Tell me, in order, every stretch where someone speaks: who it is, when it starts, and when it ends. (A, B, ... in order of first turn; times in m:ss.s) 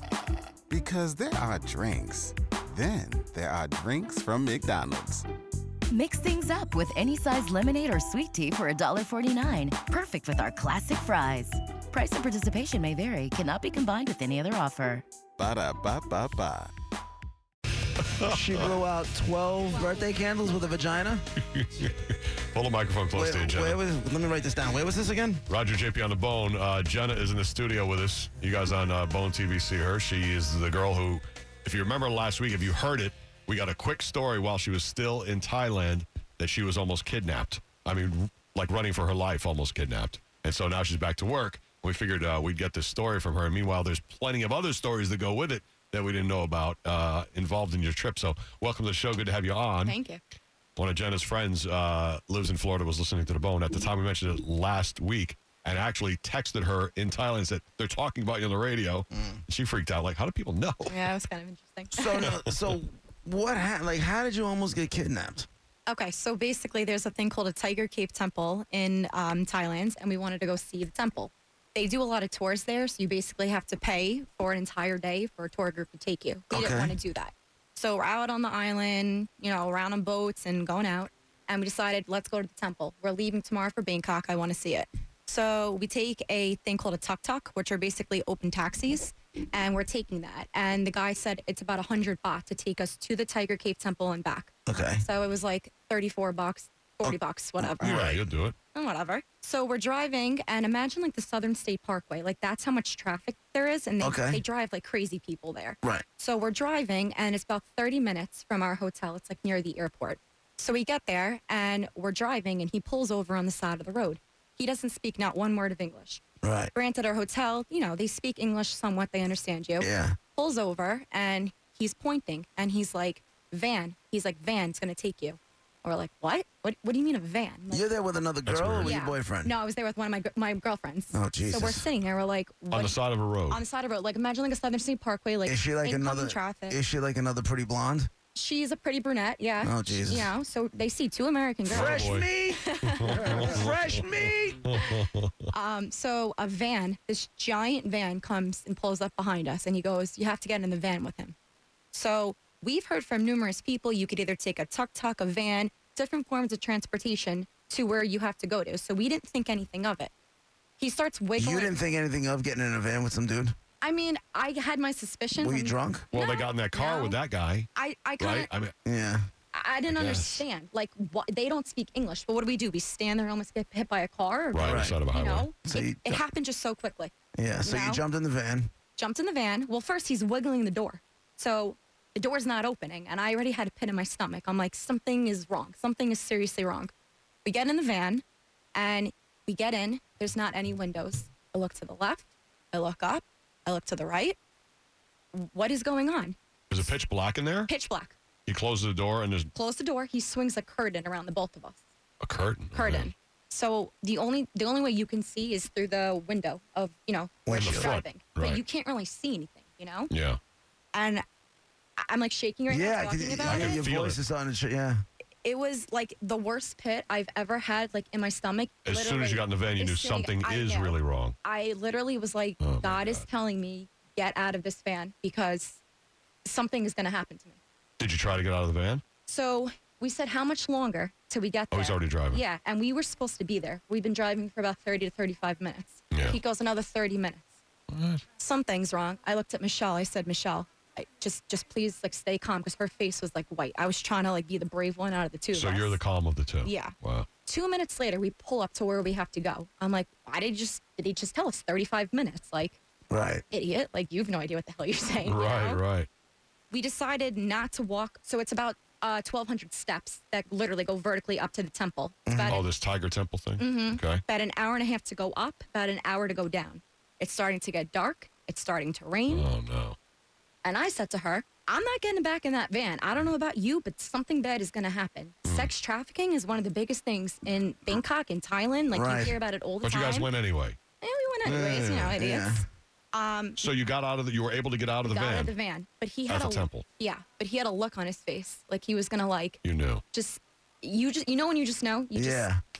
0:00.7-0:05.2 A
0:05.9-0:15.0 B
0:15.4-0:16.7 A
0:18.2-0:18.7 C
0:18.2-0:21.2 D
0:21.4-0:23.8 C
0:23.1-0:25.4 D
0:25.5-0:50.0 C
0:49.8-0:50.2 E
0:50.8-1:00.9 C
0:59.1-0:59.4 D
1:00.9-1:02.3 E
1:01.9-1:05.5 D
1:05.9-1:38.0 E
1:16.5-1:16.9 D
1:34.7-1:35.0 D
1:37.0-1:38.2 D
1:37.8-1:38.6 C
1:38.7-1:56.2 E
1:44.0-1:44.4 D
1:56.4-1:56.7 D
1:56.7-2:07.9 E
1:59.8-2:00.2 D
2:07.7-2:09.5 D
2:08.4-2:08.9 C
2:08.8-2:16.8 E
2:11.1-2:11.9 D
2:12.7-2:13.6 C
2:15.4-2:18.1 D
2:18.3-2:23.6 E
2:19.6-2:20.3 D
2:21.7-2:24.7 D
2:21.7-2:22.3 C
2:22.8-2:25.3 C
2:25.5-2:31.3 E
2:31.9-2:40.1 E
2:40.8-2:41.8 E
2:41.3-2:43.5 D
2:43.8-2:47.2 E
2:45.3-2:46.1 D
2:46.1-2:48.7 C
2:47.7-2:48.5 E
2:48.8-2:49.3 D
2:49.5-2:58.0 E
2:49.9-2:50.4 C
2:54.5-2:55.5 C
2:54.6-2:55.0 D
2:55.6-2:56.2 D
2:57.4-2:58.7 D
2:59.0-3:06.9 E
3:07.4-3:08.2 E
3:08.7-3:14.4 E
3:15.3-3:16.4 E
3:16.7-3:17.7 C
3:17.7-3:18.2 E
3:18.4-3:19.5 C
3:19.5-3:21.8 E
3:22.2-3:23.1 C
3:22.7-3:30.1 E
3:27.4-3:27.9 D
3:27.5-3:28.6 C
3:30.1-3:30.4 C
3:30.9-3:31.2 E
3:32.0-3:33.8 E
3:32.7-3:35.0 D
3:33.4-3:34.2 C
3:35.4-3:45.8 E
3:38.8-3:41.4 C
3:42.6-3:43.2 C
3:46.4-3:47.6 E
3:48.0-3:49.0 C
3:49.3-3:57.5 E
3:51.7-3:52.4 C
3:56.1-3:56.4 C
3:57.9-3:58.2 C
3:58.4-4:06.0 E
4:05.5-4:07.3 C
4:06.6-4:06.9 E
4:07.4-4:12.8 E
4:13.1-4:13.4 D
4:13.5-4:15.8 E
4:15.2-4:16.1 C
4:16.7-4:22.6 E
4:22.2-4:22.6 D
4:22.4-4:24.2 C
4:23.6-4:29.5 E
4:29.3-4:30.0 C
4:30.6-4:40.3 E
4:35.4-4:35.7 C
4:38.9-4:39.4 D
4:39.8-4:40.8 C
4:41.0-4:43.6 E
4:41.4-4:42.6 D
4:43.6-4:45.5 C
4:45.0-4:49.6 E
4:46.3-4:46.8 C
4:49.6-4:50.0 C
4:50.1-4:52.5 E
4:52.1-4:52.6 D